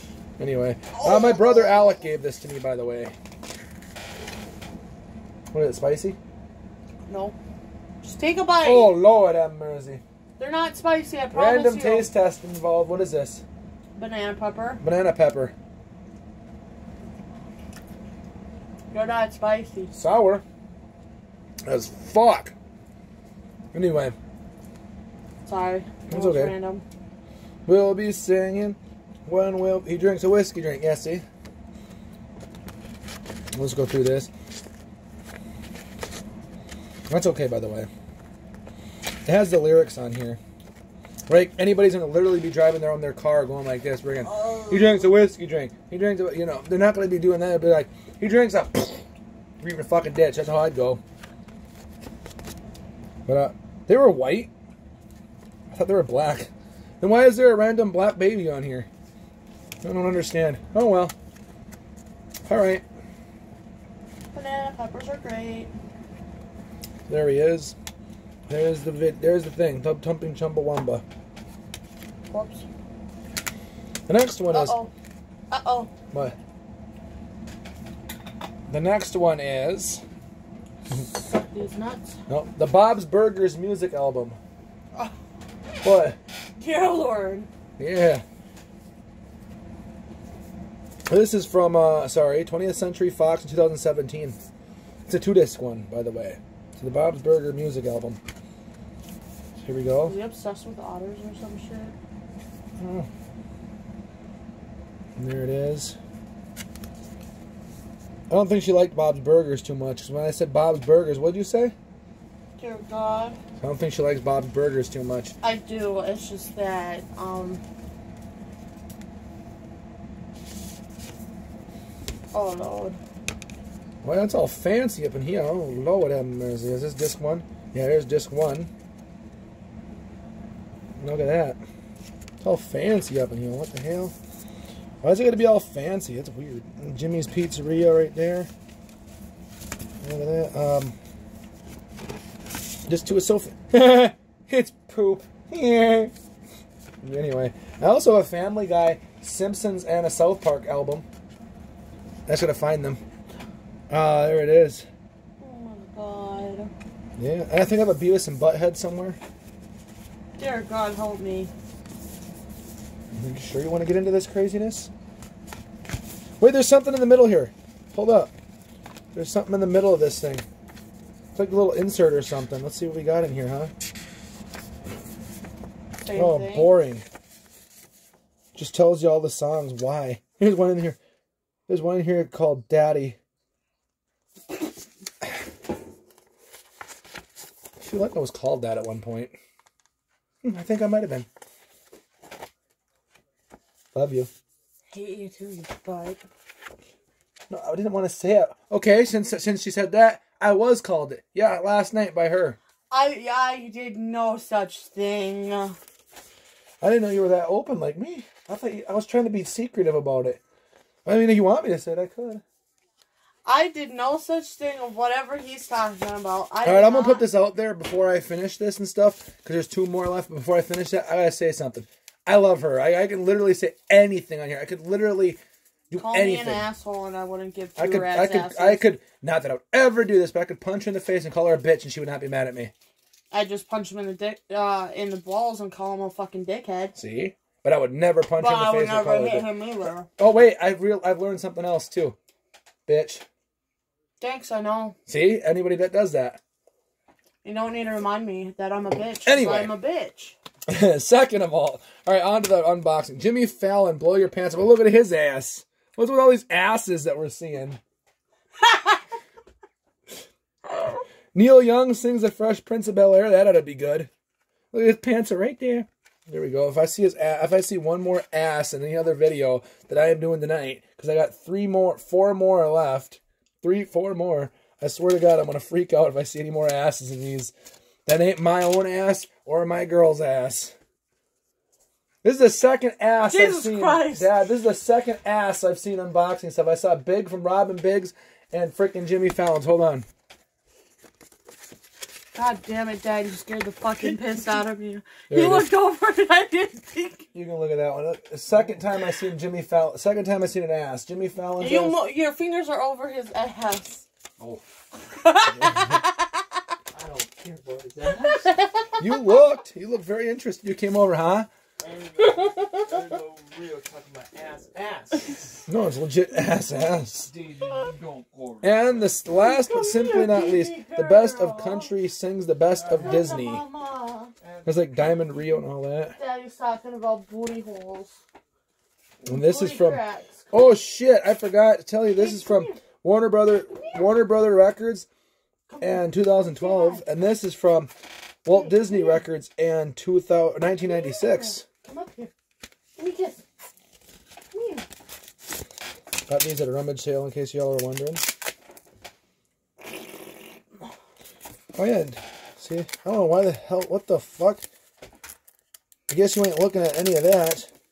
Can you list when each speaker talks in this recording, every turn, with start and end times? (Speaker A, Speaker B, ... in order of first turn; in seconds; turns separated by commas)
Speaker A: 0.4-3.1, Speaker B: 0.9-2.0, Speaker A: 5.5-6.2, Speaker B: 7.1-7.4, Speaker B: 8.0-8.9, Speaker A: 8.6-10.0, Speaker B: 10.4-12.1, Speaker A: 11.3-13.4, Speaker B: 14.0-14.8, Speaker A: 14.8-15.5, Speaker B: 18.9-19.9, Speaker A: 19.9-20.4, Speaker A: 21.7-22.6, Speaker A: 23.7-24.2, Speaker B: 25.5-26.8, Speaker A: 26.1-26.5, Speaker A: 27.7-31.2, Speaker A: 33.5-34.3, Speaker A: 37.1-37.9, Speaker A: 39.2-40.4, Speaker A: 41.3-49.0, Speaker B: 44.3-45.1, Speaker A: 49.6-51.0, Speaker A: 53.3-54.5, Speaker A: 55.7-56.5, Speaker A: 57.0-58.9, Speaker A: 59.8-61.1, Speaker A: 62.5-62.8, Speaker B: 64.3-65.7, Speaker A: 67.1-67.8, Speaker A: 68.5-71.0, Speaker B: 72.3-72.7, Speaker A: 74.1-74.8, Speaker B: 74.5-74.9, Speaker B: 75.5-75.9, Speaker A: 78.7-80.0, Speaker B: 80.9-82.2, Speaker A: 82.3-84.4, Speaker A: 85.8-86.2, Speaker B: 86.6-87.5, Speaker A: 87.8-88.2, Speaker A: 91.1-94.4, Speaker A: 95.1-98.2, Speaker A: 99.6-100.2, Speaker B: 100.0-102.0, Speaker A: 102.8-103.1, Speaker A: 105.2-106.0, Speaker A: 108.3-111.7, Speaker B: 112.6-113.4, Speaker A: 113.6-115.3, Speaker B: 115.4-117.6, Speaker B: 122.3-123.0, Speaker A: 124.0-128.7, Speaker A: 131.0-131.6, Speaker A: 132.4-134.1, Speaker A: 135.0-138.5, Speaker A: 140.0-141.0, Speaker A: 142.9-146.1, Speaker A: 147.0-151.0, Speaker A: 152.3-153.0, Speaker A: 153.9-154.8, Speaker B: 155.4-156.7, Speaker A: 157.2-159.2, Speaker B: 160.4-161.5, Speaker A: 163.1-164.9, Speaker A: 166.4-168.3, Speaker A: 169.1-170.4, Speaker A: 171.3-173.7, Speaker B: 176.0-176.7, Speaker A: 176.1-177.0, Speaker A: 178.5-181.0, Speaker A: 181.7-183.2, Speaker A: 187.8-189.3, Speaker A: 190.4-191.3, Speaker A: 193.9-194.3, Speaker B: 194.9-196.2, Speaker A: 197.5-202.6, Speaker B: 202.9-205.8, Speaker A: 206.8-210.4, Speaker A: 211.0-212.4, Speaker B: 213.4-217.2, Speaker A: 216.6-225.4, Speaker A: 225.9-226.7, Speaker B: 226.0-228.8, Speaker A: 227.8-232.7, Speaker B: 233.3-236.9, Speaker A: 236.9-239.5, Speaker B: 238.4-240.1, Speaker A: 240.2-242.2, Speaker A: 242.9-243.2, Speaker B: 244.2-245.0, Speaker A: 245.1-246.4, Speaker B: 247.4-250.4, Speaker A: 249.2-249.7, Speaker A: 250.7-257.8, Speaker B: 258.6-259.0, Speaker A: 261.3-264.1, Speaker A: 264.7-277.5, Speaker A: 278.1-280.7, Speaker A: 282.2-290.1, Speaker B: 283.2-284.3, Speaker B: 292.3-297.2, Speaker A: 295.3-295.6, Speaker A: 297.3-302.0, Speaker B: 301.6-304.1, Speaker B: 305.1-306.6, Speaker C: 306.9-308.5, Speaker B: 308.3-309.0, Speaker A: 309.0-311.5, Speaker C: 311.8-315.6, Speaker A: 315.7-317.3, Speaker C: 317.2-319.1, Speaker A: 318.6-323.6, Speaker B: 319.4-321.9, Speaker C: 322.8-323.2, Speaker B: 323.0-324.3, Speaker A: 324.6-326.1, Speaker B: 326.1-328.2, Speaker B: 329.2-330.8, Speaker A: 329.3-335.1, Speaker B: 332.1-332.8, Speaker B: 335.7-337.0, Speaker A: 335.8-337.9, Speaker A: 338.4-341.6, Speaker B: 338.5-339.2, Speaker B: 340.6-342.3, Speaker B: 343.0-343.4, Speaker B: 344.5-344.9, Speaker A: 346.3-348.3, Speaker A: 351.8-354.7, Speaker A: 356.1-357.7